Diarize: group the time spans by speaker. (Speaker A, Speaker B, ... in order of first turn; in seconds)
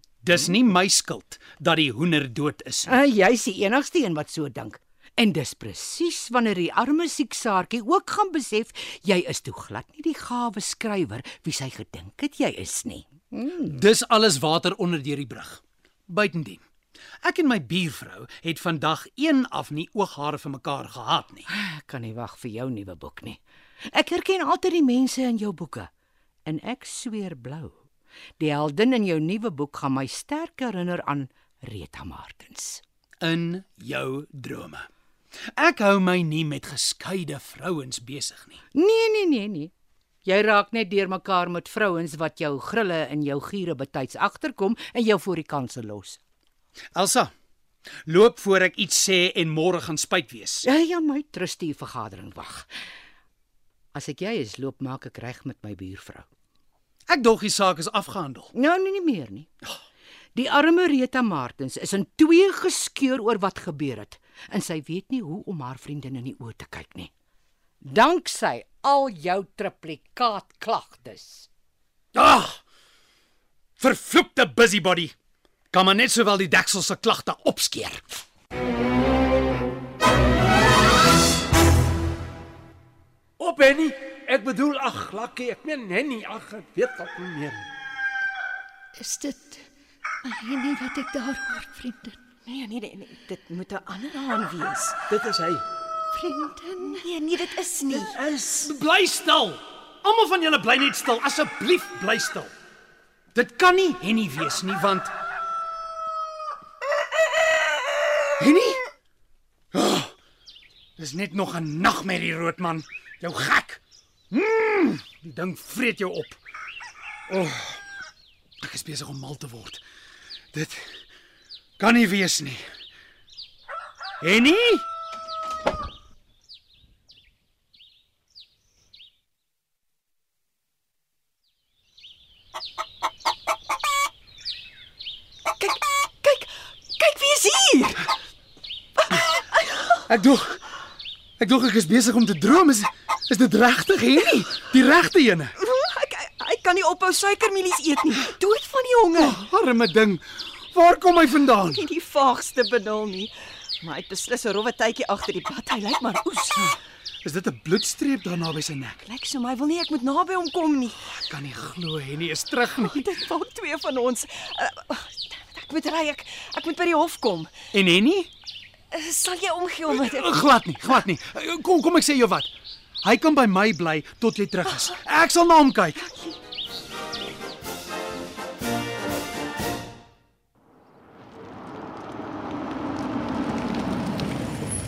Speaker A: 0.2-2.9, 13.7-16.6, 17.2-21.4, 33.2-34.9, 35.5-38.6, 46.9-47.3, 48.0-50.6, 57.1-58.5, 72.1-72.6, 73.8-75.1, 75.7-78.0, 98.6-102.5, 103.3-105.1, 108.4-108.8, 109.7-110.1, 111.0-116.4, 117.3-117.8, 118.6-119.8, 120.5-120.8, 121.8-122.6, 124.2-124.9, 140.1-140.6, 141.4-145.5, 149.2-151.8, 157.2-159.0, 161.1-163.0, 167.7-168.3, 169.9-172.5, 173.0-176.0
Speaker B: 2.9-13.8, 21.5-23.4, 23.9-25.9, 26.4-27.8, 28.4-32.8, 38.7-39.7, 40.2-46.2, 50.6-52.7, 53.9-56.2, 58.5-59.5, 60.3-67.1, 67.8-71.5
Speaker C: 83.4-87.7, 95.1-95.6, 97.9-98.7
Speaker D: 89.0-89.7, 90.2-92.2, 96.1-97.1
Speaker E: 92.5-95.0, 96.8-98.2, 135.6-138.1, 139.0-140.0, 145.6-149.4, 151.7-156.8, 159.0-161.1, 162.8-167.5, 168.9-170.4, 174.7-174.9, 176.0-176.4